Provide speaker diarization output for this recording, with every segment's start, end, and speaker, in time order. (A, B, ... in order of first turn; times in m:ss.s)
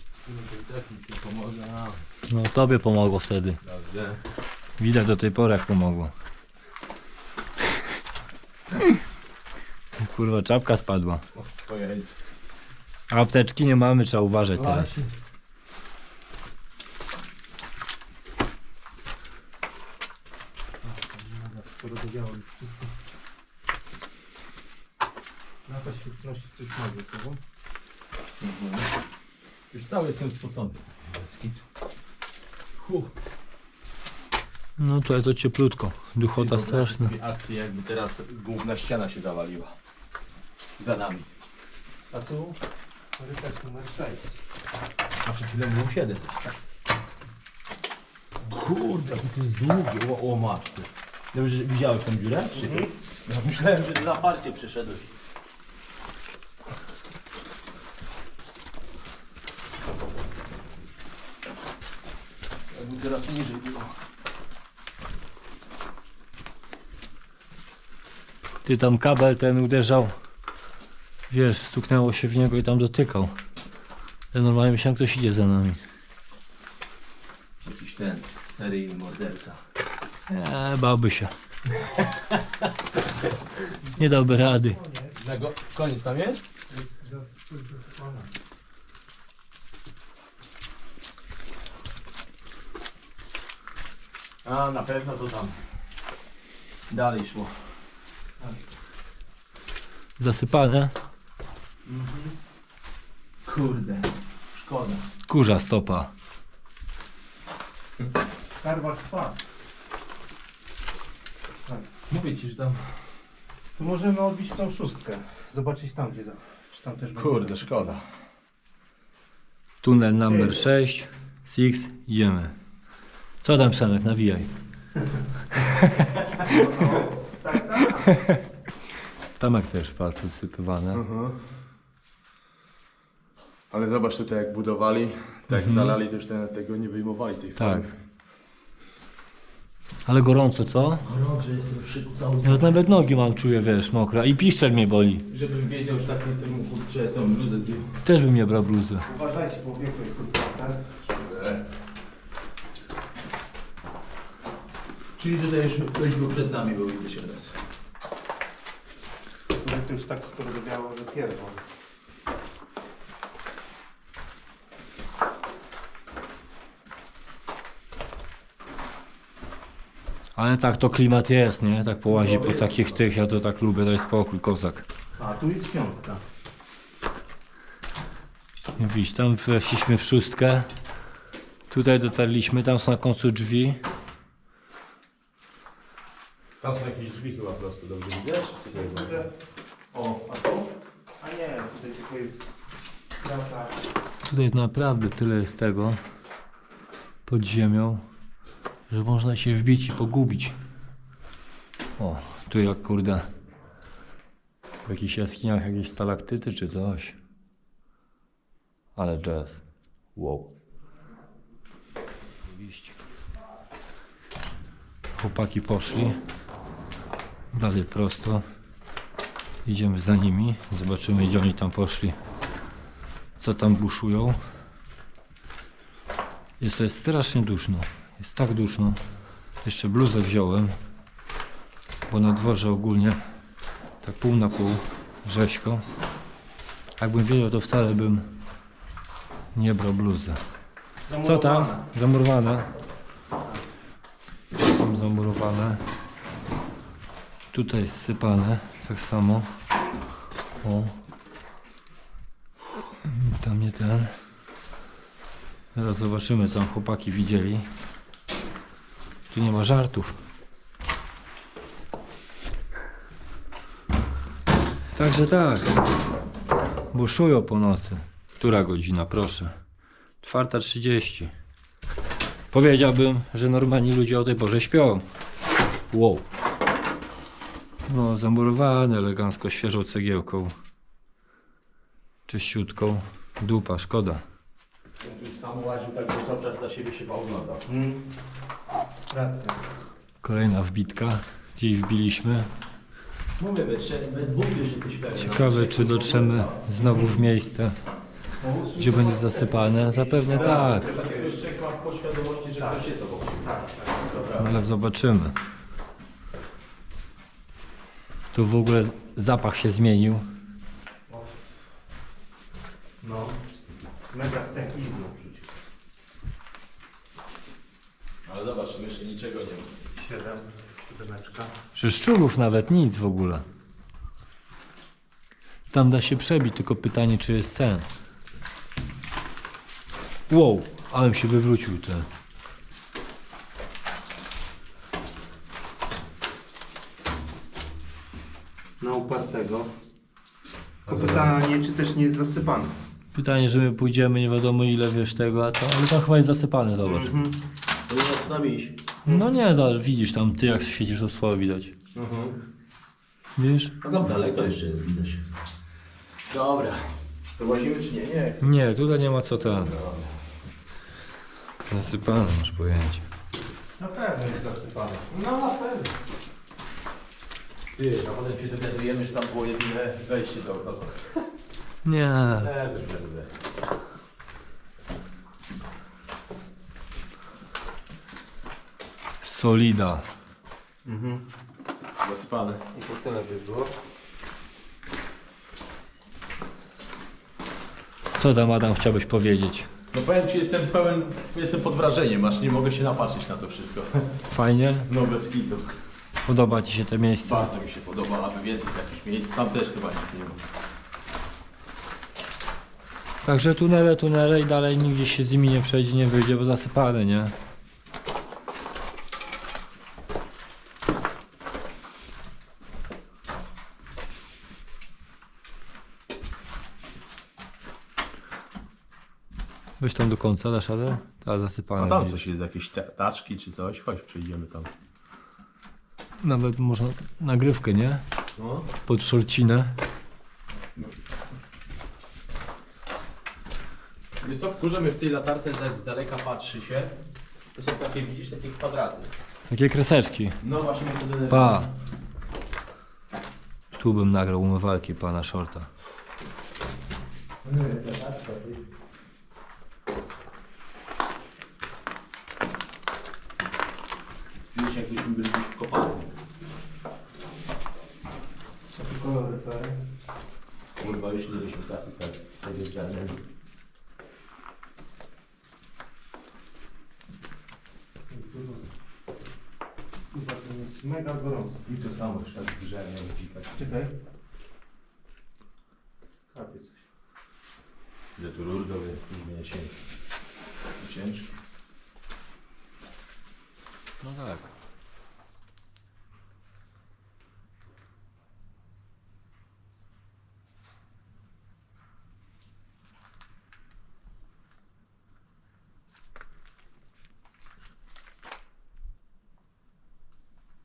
0:00.1-0:02.0 A
0:02.3-0:03.6 B
0:03.6-0:04.2 A
0:04.8-0:06.1 B
0:10.0-0:11.2 B
0:11.3-0:12.1 A
0:13.1-0:14.9 B
0:14.5-0:15.1 A
0:20.8-0:22.9 C
0:25.6-0:27.4 C
0:28.4-0:28.9 A
0:29.7-0:31.6 A
0:32.8-0:33.1 A
0:34.8-0:37.1 B
0:36.3-0:39.7 A
0:40.8-0:41.3 A
0:42.1-0:42.6 C
0:43.2-0:44.3 C
0:45.2-0:46.4 A
0:48.4-0:55.1 A
0:52.5-0:52.9 C
1:02.7-1:04.0 A
1:08.6-1:10.2 B
1:11.3-1:13.3 B
1:14.3-1:15.8 B
1:17.6-1:19.6 A
1:20.3-1:21.3 B
1:21.8-1:22.7 A
1:23.9-1:24.8 B
1:24.3-1:25.2 C
1:25.2-1:26.4 A
1:26.7-1:28.3 C
1:34.4-1:35.6 A
1:36.9-1:37.6 A
1:40.2-1:40.9 B
1:41.8-1:42.3 C
1:43.4-1:45.0 A
1:45.3-1:46.1 B
1:48.6-1:49.4 C
1:52.1-1:52.8 A
1:53.8-1:57.8 C
1:57.1-1:58.1 A
1:59.8-2:02.6 B
2:00.2-2:00.6 C
2:03.4-2:04.5 B
2:05.5-2:05.9 B
2:06.4-2:08.3 C
2:09.4-2:11.0 B
2:10.9-2:11.4 A
2:13.7-2:18.0 A
2:15.5-2:16.0 B
2:17.6-2:17.9 B
2:20.0-2:21.0 B
2:21.0-2:22.8 A
2:22.4-2:25.2 B
2:25.3-2:27.9 A
2:28.0-2:29.0 B
2:29.0-2:30.8 C
2:31.0-2:31.6 A
2:35.2-2:37.6 A
2:39.5-2:41.6 C
2:50.4-2:54.8 B
2:52.1-2:53.0 A
2:55.2-2:56.2 C
2:58.8-3:00.7 B
3:01.7-3:03.8 B
3:06.6-3:09.2 A
3:08.7-3:09.3 C
3:09.9-3:12.5 C
3:13.2-3:13.8 C
3:14.2-3:16.0 B
3:17.3-3:18.0 B
3:18.9-3:20.6 B
3:22.0-3:23.3 B
3:24.8-3:27.2 B
3:29.0-3:29.6 B
3:30.1-3:30.5 B
3:32.4-3:33.0 B
3:35.2-3:36.2 B
3:37.5-3:38.4 B
3:39.6-3:42.2 B
3:43.4-3:44.4 B
3:46.6-3:49.0 B
3:49.6-3:50.8 B
3:52.1-3:53.2 B
3:54.0-3:55.8 B
3:57.0-3:58.3 B
3:59.5-4:00.4 B
4:01.1-4:01.8 C
4:01.2-4:02.7 B
4:04.6-4:05.8 B
4:07.5-4:09.5 B
4:10.6-4:10.9 B
4:13.0-4:14.2 B
4:15.7-4:17.7 B
4:19.3-4:20.2 B
4:24.9-4:25.8 B
4:26.9-4:29.6 B
4:30.2-4:31.3 B
4:32.5-4:35.0 B
4:35.9-4:36.2 B
4:37.9-4:40.5 B
4:42.3-4:44.2 B
4:45.0-4:47.6 A
4:47.7-4:48.0 C
4:49.1-4:49.6 C
4:50.2-4:52.5 B
4:53.4-4:56.7 A
4:55.2-4:57.8 B
4:58.4-5:01.4 C
4:58.8-5:00.9 B
5:00.3-5:04.5 A
5:02.6-5:02.8 C
5:03.4-5:04.5 C
5:04.4-5:05.4 B
5:08.3-5:10.2 B
5:11.1-5:11.4 C
5:13.0-5:13.4 C
5:14.1-5:15.5 C
5:18.2-5:19.7 A
5:20.0-5:21.5 C
5:21.7-5:23.4 B
5:25.7-5:28.0 B
5:30.3-5:32.1 B
5:38.8-5:39.7 C
5:40.9-5:41.3 A
5:40.9-5:42.7 C
5:43.1-5:47.2 B
5:46.8-5:47.4 C
5:47.9-5:48.8 A
5:49.0-5:51.7 B
5:51.9-5:52.4 A
5:53.4-5:53.7 B
5:53.8-5:55.3 A
5:56.3-5:58.4 A
5:58.4-5:59.8 B
5:59.6-6:00.2 A
6:01.7-6:03.0 B
6:03.8-6:05.1 C
6:05.1-6:05.9 A
6:07.7-6:11.2 A
6:11.8-6:12.5 B
6:12.4-6:13.3 A
6:19.2-6:20.1 B
6:20.8-6:21.2 C
6:22.0-6:22.6 A
6:22.7-6:23.7 C
6:28.2-6:29.7 B
6:29.9-6:34.1 A
6:34.3-6:34.9 B
6:34.9-6:35.7 A
6:36.2-6:37.5 B
6:37.2-6:40.4 A
6:43.2-6:47.3 B
6:59.8-7:02.2 B
7:01.8-7:04.7 A
7:06.2-7:08.0 B
7:08.4-7:08.7 A
7:08.8-7:09.8 B
7:14.2-7:16.9 A
7:17.5-7:19.1 A
7:19.5-7:20.4 B
7:20.4-7:21.6 A
7:21.3-7:21.7 B
7:23.7-7:25.7 B
7:27.4-7:28.6 A
7:34.5-7:36.0 A
7:38.7-7:39.8 C
7:40.8-7:43.2 A
7:48.1-7:48.7 C
7:50.1-7:51.6 C
7:51.6-7:53.7 A
7:53.6-7:53.9 C
7:56.3-7:56.8 C
7:58.2-7:59.8 A
8:00.8-8:01.3 A
8:04.0-8:04.5 B